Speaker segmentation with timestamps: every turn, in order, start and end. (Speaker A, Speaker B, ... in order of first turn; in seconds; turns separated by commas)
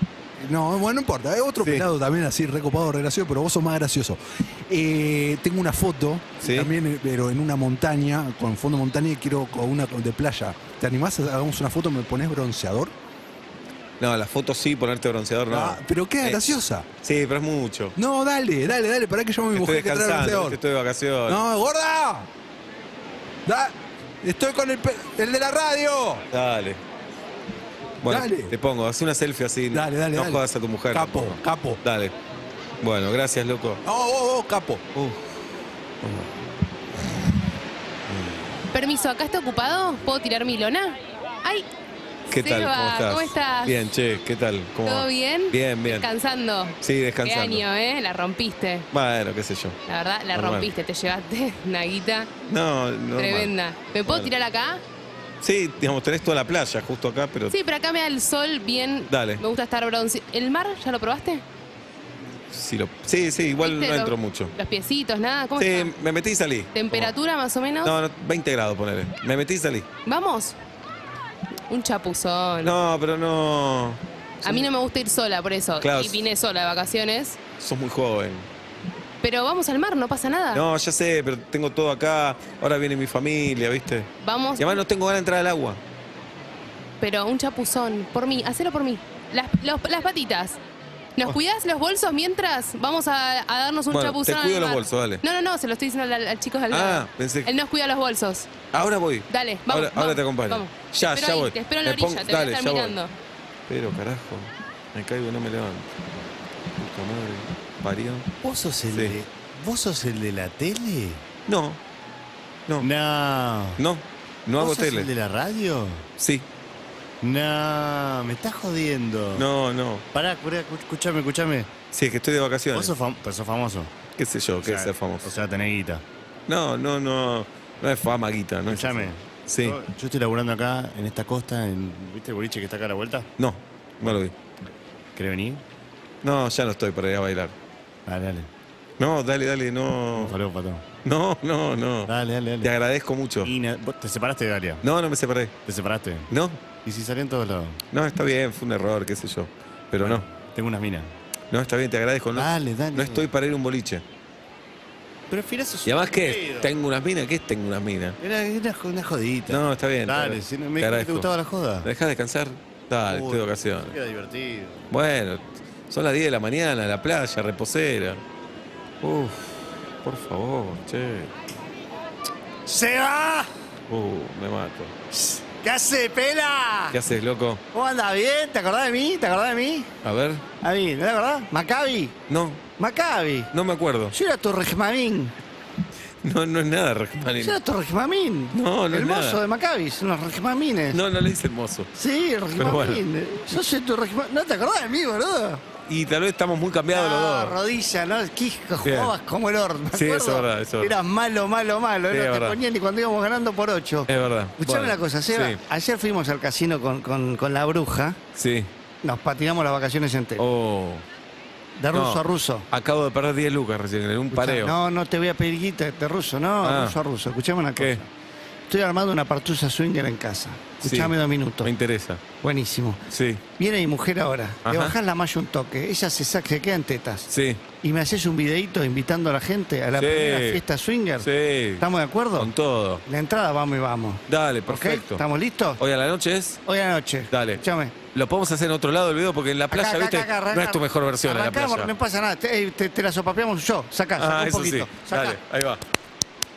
Speaker A: 0.4-12.9, Speaker B: 1.6-1.9, Speaker B: 6.4-6.7, Speaker B: 14.0-17.9, Speaker A: 15.5-16.9, Speaker A: 17.9-20.6, Speaker B: 19.5-21.4, Speaker A: 21.2-22.3, Speaker A: 23.4-26.2, Speaker B: 26.3-26.8, Speaker B: 28.0-32.1, Speaker A: 28.0-28.5, Speaker A: 29.7-31.8, Speaker B: 32.8-33.8, Speaker A: 33.8-34.8, Speaker B: 34.9-35.3, Speaker B: 36.0-36.3, Speaker B: 38.1-38.5, Speaker C: 38.7-41.6, Speaker B: 42.3-46.1, Speaker C: 42.3-43.8, Speaker C: 44.8-48.9, Speaker B: 46.8-47.6, Speaker B: 48.9-49.8, Speaker C: 49.9-52.3, Speaker B: 50.3-50.7, Speaker B: 52.5-53.5, Speaker C: 53.1-54.8, Speaker B: 54.0-54.3, Speaker B: 55.4-57.5, Speaker C: 57.5-61.4, Speaker B: 59.1-59.4, Speaker B: 62.5-64.5, Speaker C: 63.6-65.9, Speaker B: 65.6-67.1, Speaker C: 66.7-68.0, Speaker B: 67.8-69.9, Speaker C: 70.0-70.5, Speaker C: 71.7-72.7, Speaker B: 72.6-74.7, Speaker C: 74.4-77.4, Speaker B: 75.8-76.3, Speaker B: 77.6-78.5, Speaker C: 79.2-80.6, Speaker B: 80.5-85.8, Speaker C: 84.2-84.8, Speaker C: 87.0-90.6, Speaker C: 91.2-98.5, Speaker B: 93.9-95.2, Speaker B: 96.7-97.5, Speaker B: 98.7-103.0, Speaker C: 99.3-103.1, Speaker B: 103.7-105.9, Speaker B: 106.8-108.3, Speaker D: 108.4-111.2, Speaker B: 111.5-111.8, Speaker D: 112.8-113.8, Speaker B: 113.8-115.1, Speaker D: 114.6-116.0, Speaker B: 116.2-116.5, Speaker D: 117.2-119.4, Speaker B: 119.3-120.0, Speaker D: 120.2-121.7, Speaker B: 121.9-122.9, Speaker D: 122.7-123.9, Speaker B: 124.2-125.3, Speaker D: 124.6-126.0, Speaker B: 126.5-129.8, Speaker D: 128.7-133.3, Speaker B: 133.4-134.3, Speaker D: 135.2-135.6, Speaker B: 136.2-137.5, Speaker D: 138.1-138.5, Speaker B: 139.0-140.3, Speaker D: 140.2-140.8, Speaker B: 141.0-143.5, Speaker D: 142.1-142.7, Speaker D: 143.4-144.8, Speaker B: 144.8-145.5, Speaker D: 145.7-146.3, Speaker B: 146.3-146.6, Speaker D: 146.8-147.8, Speaker B: 147.9-150.2, Speaker D: 150.0-151.1, Speaker B: 151.5-154.0, Speaker D: 152.3-153.3, Speaker D: 155.3-156.7, Speaker B: 155.8-158.2, Speaker D: 158.2-161.9, Speaker B: 159.5-161.3, Speaker B: 161.8-163.9, Speaker D: 163.1-164.8, Speaker B: 164.9-168.2, Speaker B: 169.0-171.3, Speaker E: 172.7-173.5, Speaker B: 173.9-174.9, Speaker E: 175.1-177.0, Speaker B: 176.9-177.6, Speaker E: 177.7-179.9, Speaker B: 180.0-180.4, Speaker E: 180.6-182.1, Speaker B: 182.3-182.6, Speaker E: 182.8-183.5, Speaker B: 183.5-184.1, Speaker E: 184.1-185.3, Speaker B: 186.2-187.6, Speaker E: 187.4-191.0, Speaker B: 188.5-189.4, Speaker B: 190.9-191.9, Speaker E: 191.9-195.6, Speaker B: 192.6-193.6, Speaker B: 195.8-197.6, Speaker E: 196.9-204.1, Speaker B: 198.8-199.1, Speaker B: 199.9-201.0, Speaker B: 202.1-202.6, Speaker B: 204.1-205.6, Speaker E: 204.6-208.2, Speaker B: 208.3-208.7, Speaker E: 209.0-210.4, Speaker B: 210.4-211.0, Speaker E: 211.8-212.7, Speaker B: 211.9-214.8, Speaker E: 214.3-218.1, Speaker B: 216.6-216.9, Speaker B: 217.8-218.0, Speaker E: 218.7-221.7, Speaker B: 220.8-222.2, Speaker E: 222.4-223.0, Speaker B: 223.1-223.4, Speaker E: 223.6-227.3, Speaker B: 224.6-224.9, Speaker B: 227.3-227.6, Speaker E: 227.8-231.3, Speaker B: 229.9-230.6, Speaker B: 231.2-233.0, Speaker E: 231.8-232.5, Speaker E: 233.1-235.8, Speaker B: 234.3-235.2, Speaker B: 235.8-236.6, Speaker E: 236.7-237.9, Speaker B: 237.3-241.9, Speaker E: 239.7-245.4, Speaker B: 244.2-245.8